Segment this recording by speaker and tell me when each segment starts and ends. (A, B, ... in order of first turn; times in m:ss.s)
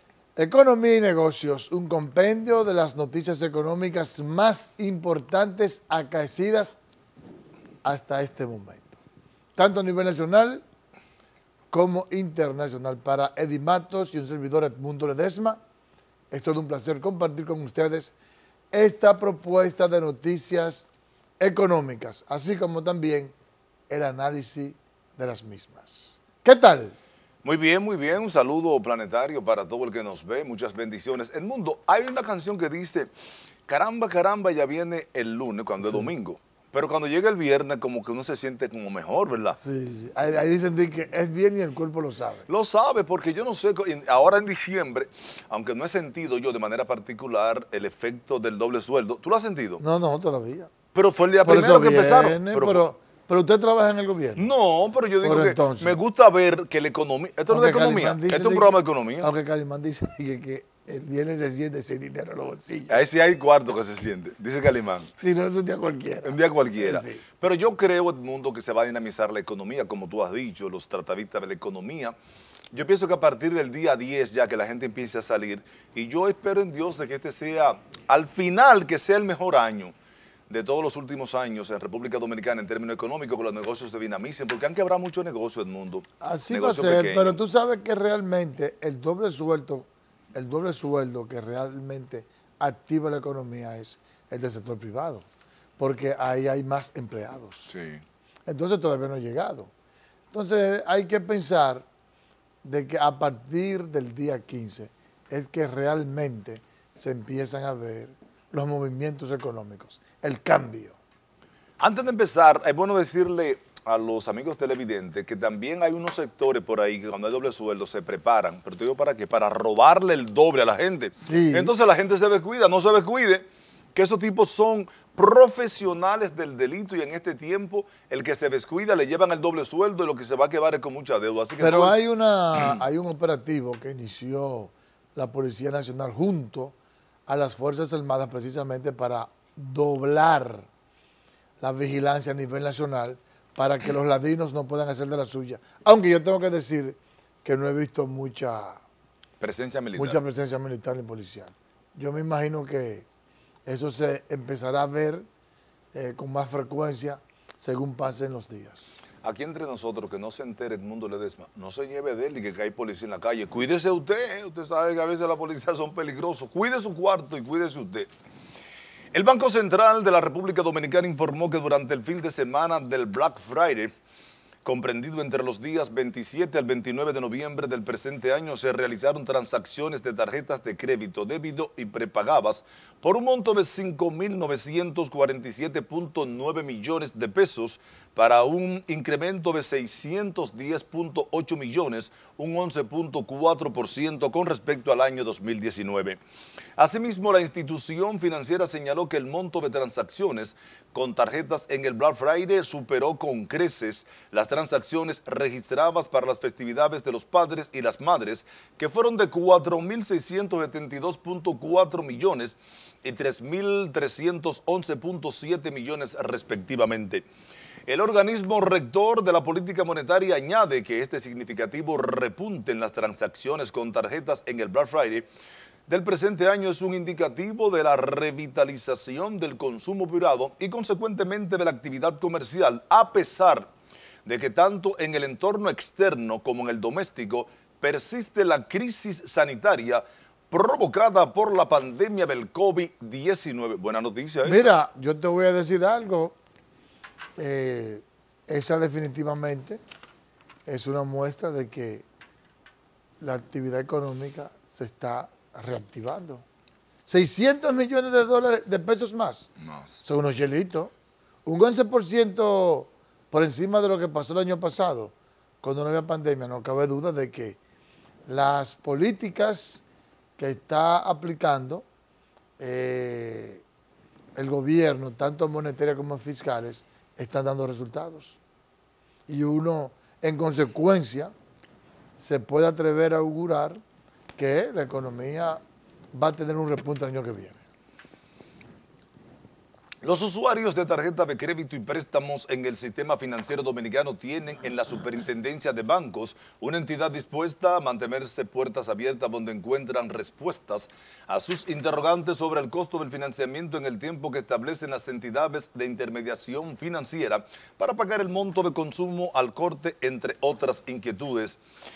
0:00.4-0:06.8 A
0:07.8-0:09.0 A
0:09.6-0:10.6 A
0:11.7-0:15.6 A
0:16.3-0:18.1 A
0:18.7-0:20.9 A
0:21.4-0:23.3 A
0:23.9-0:26.9 A
0:27.4-0:33.1 B
0:33.7-0:39.6 B
0:35.8-0:36.1 A
0:39.6-0:42.4 A
0:42.5-0:49.8 B
0:49.8-0:50.7 A
0:50.9-0:52.8 B
0:51.4-0:54.5 A
0:54.4-0:59.3 B
0:55.2-0:56.0 A
0:57.5-1:03.0 A
1:02.9-1:05.1 B
1:05.2-1:07.2 A
1:06.2-1:12.2 B
1:12.7-1:19.9 B
1:20.5-1:27.4 B
1:26.2-1:35.3 A
1:35.8-1:37.7 A
1:37.7-1:38.0 B
1:38.5-1:39.7 A
1:40.3-1:41.8 A
1:42.6-1:51.0 A
1:51.8-2:11.9 B
2:01.2-2:01.7 A
2:11.6-2:16.8 A
2:12.5-2:12.8 B
2:17.3-2:20.7 A
2:21.6-2:28.8 A
2:29.4-2:30.2 B
2:30.0-2:33.1 A
2:33.7-2:35.3 A
2:35.9-2:38.8 A
2:39.2-2:48.1 B
2:49.1-2:53.9 B
2:54.6-3:16.2 B
3:16.8-3:37.2 B
3:37.9-3:45.3 B
3:45.9-3:53.7 B
3:54.2-4:04.7 B
4:04.4-4:06.4 A
4:07.4-4:09.8 A
4:10.7-4:12.0 A
4:13.2-4:16.4 A
4:17.1-4:19.5 A
4:20.0-4:20.9 A
4:21.4-4:27.6 A
4:28.3-4:29.8 A
4:30.4-4:31.9 A
4:32.6-4:33.6 A
4:34.4-4:38.4 A
4:39.3-4:41.3 A
4:42.2-4:43.8 A
4:44.4-4:45.6 A
4:46.1-4:47.6 A
4:50.0-5:11.6 B